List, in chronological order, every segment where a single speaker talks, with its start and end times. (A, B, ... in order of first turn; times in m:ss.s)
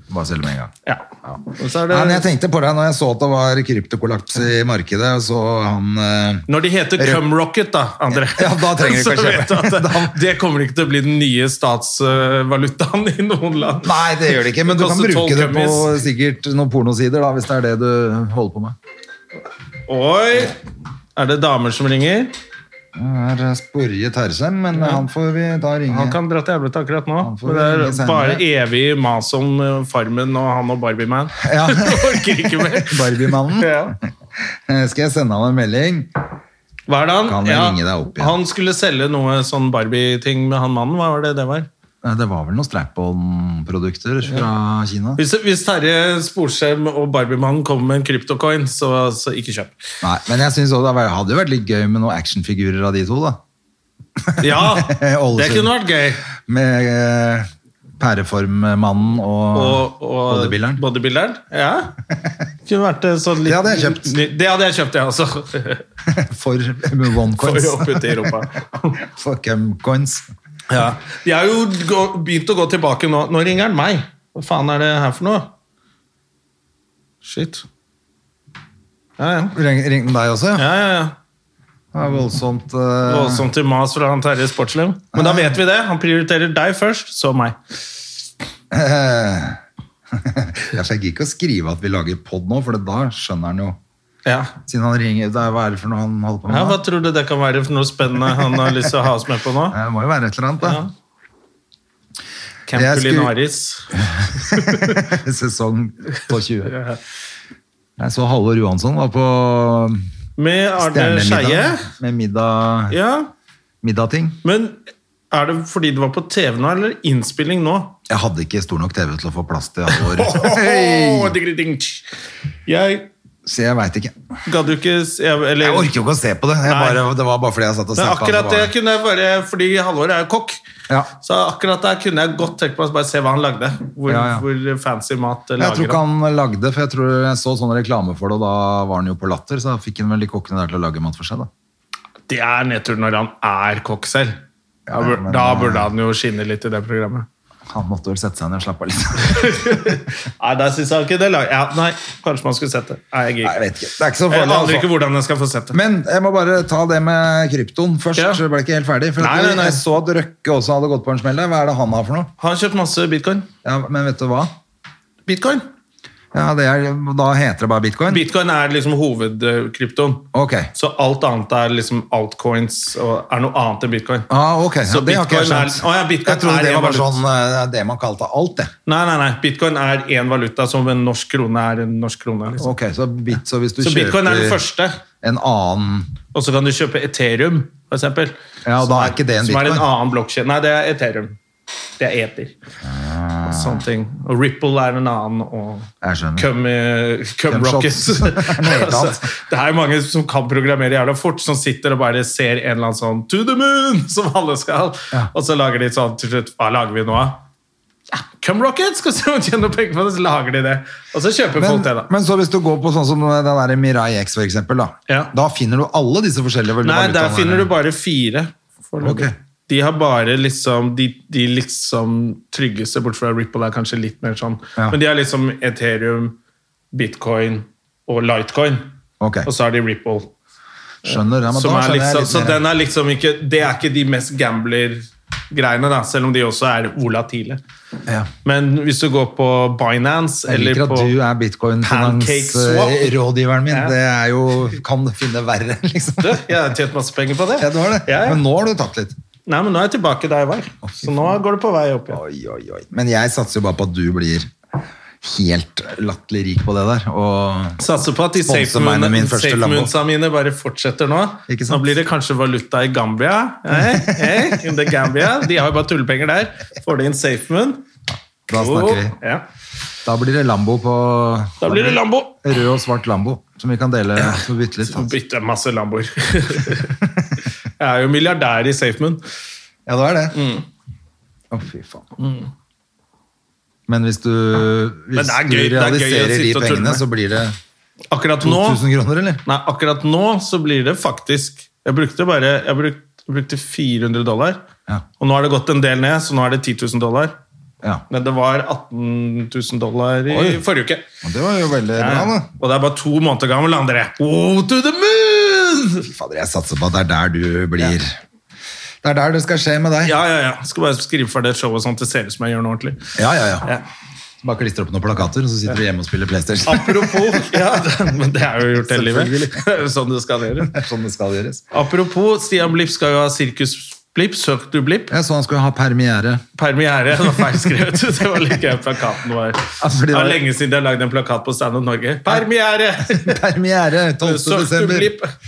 0:00.1-0:00.7 A
0:00.8-0:02.2 B
0:01.2-0:06.4 A
0:06.5-0:15.9 B
0:07.0-0:07.2 A
0:08.1-0:10.2 A
0:13.8-0:18.8 A
0:19.9-0:20.6 B
0:21.2-0:22.3 B
0:22.9-0:26.2 A
0:24.8-0:25.0 B
0:25.9-0:34.0 B
0:27.2-0:28.4 A
0:31.4-0:34.0 A
0:34.7-0:36.1 A
0:36.9-0:41.7 B
0:37.2-0:38.4 A
0:42.0-0:45.2 A
0:45.2-0:49.8 B
0:50.0-0:53.4 A
0:54.2-0:55.7 A
0:54.4-0:56.2 B
0:56.3-1:00.8 A
0:59.5-1:01.9 B
1:02.6-1:05.8 B
1:03.4-1:04.1 A
1:06.0-1:08.4 A
1:07.4-1:09.0 B
1:09.0-1:10.3 A
1:10.7-1:15.5 B
1:17.2-1:17.6 B
1:19.2-1:19.6 B
1:19.5-1:20.7 A
1:20.6-1:21.1 B
1:21.9-1:23.5 A
1:23.0-1:27.6 B
1:25.1-1:25.5 A
1:28.7-1:29.6 A
1:30.1-1:33.8 A
1:34.2-1:34.5 B
1:34.6-1:36.8 A
1:36.5-1:39.8 B
1:39.7-1:40.8 A
1:40.6-1:40.9 B
1:42.7-1:45.0 B
1:42.7-1:43.3 A
1:43.9-1:46.8 A
1:46.6-1:47.0 B
1:48.0-1:50.0 A
1:50.4-1:51.9 B
1:50.8-1:53.0 A
1:52.9-1:53.3 B
1:53.8-1:54.4 A
1:54.4-1:54.8 B
1:55.3-1:58.0 B
1:58.1-2:01.4 A
1:59.9-2:02.0 B
2:02.7-2:03.1 B
2:03.4-2:04.1 A
2:04.4-2:05.9 B
2:05.6-2:08.7 A
2:06.6-2:07.0 B
2:07.9-2:10.6 B
2:11.2-2:16.0 B
2:14.1-2:14.4 A
2:15.6-2:21.5 A
2:22.3-2:24.4 B
2:24.9-2:25.9 A
2:24.9-2:27.3 B
2:27.7-2:29.8 A
2:29.2-2:33.6 B
2:33.4-2:34.9 A
2:34.3-2:35.8 B
2:35.7-2:42.3 A
2:38.2-2:38.4 B
2:39.2-2:39.8 B
2:42.4-2:43.5 B
2:43.6-2:44.5 A
2:45.2-2:45.6 B
2:46.3-2:48.2 A
2:48.1-2:54.3 B
2:50.3-2:50.7 A
2:54.3-2:58.7 A
2:54.8-2:57.2 B
2:58.8-3:02.7 B
3:02.6-3:04.6 A
3:03.8-3:05.0 B
3:05.2-3:06.1 A
3:06.3-3:11.4 B
3:08.6-3:09.9 A
3:12.0-3:12.5 B
3:12.8-3:13.8 A
3:13.4-3:27.4 B
3:16.0-3:16.5 A
3:17.5-3:19.2 A
3:28.1-3:32.1 B
3:31.6-3:37.7 A
3:36.8-3:46.4 B
3:39.0-3:39.3 A
3:46.9-3:48.9 B
3:49.2-3:49.5 A
3:49.4-3:50.3 B
3:51.0-3:52.6 A
3:51.0-3:57.6 B
3:58.4-4:01.1 B
4:00.5-4:06.4 A
4:01.8-4:03.2 B
4:03.7-4:03.9 B
4:06.2-4:08.4 B
4:07.6-4:09.2 A
4:09.5-4:12.2 B
4:10.8-4:11.1 A
4:12.1-4:14.5 A
4:15.2-4:17.8 A
4:17.8-4:27.8 B
4:18.3-4:19.9 A
4:21.5-4:21.9 A
4:23.7-4:24.7 A
4:28.5-4:29.1 A
4:28.5-4:29.4 B
4:30.0-4:35.1 A
4:31.6-4:32.4 B
4:34.2-4:37.0 B
4:37.8-4:39.2 B
4:39.8-4:40.4 A
4:40.3-4:40.6 B
4:41.5-4:42.0 A
4:42.2-4:42.5 B
4:43.9-4:47.6 A
4:45.1-4:47.0 B
4:48.1-4:48.8 B
4:48.4-4:49.4 A
4:49.4-4:54.6 B
4:55.2-4:57.4 B
4:58.1-5:01.0 B
5:00.3-5:00.6 A
5:01.2-5:02.5 A
5:02.0-5:06.1 B
5:06.1-5:08.2 A
5:09.0-5:10.2 A
5:10.0-5:13.1 B
5:13.2-5:13.6 A
5:14.4-5:17.5 A
5:16.6-5:20.7 B
5:18.8-5:19.6 A
5:20.6-5:21.6 A
5:21.7-5:25.1 B
5:25.1-5:26.4 A
5:26.6-5:33.4 B
5:29.8-5:30.4 A
5:33.0-5:35.1 A
5:34.2-5:35.3 B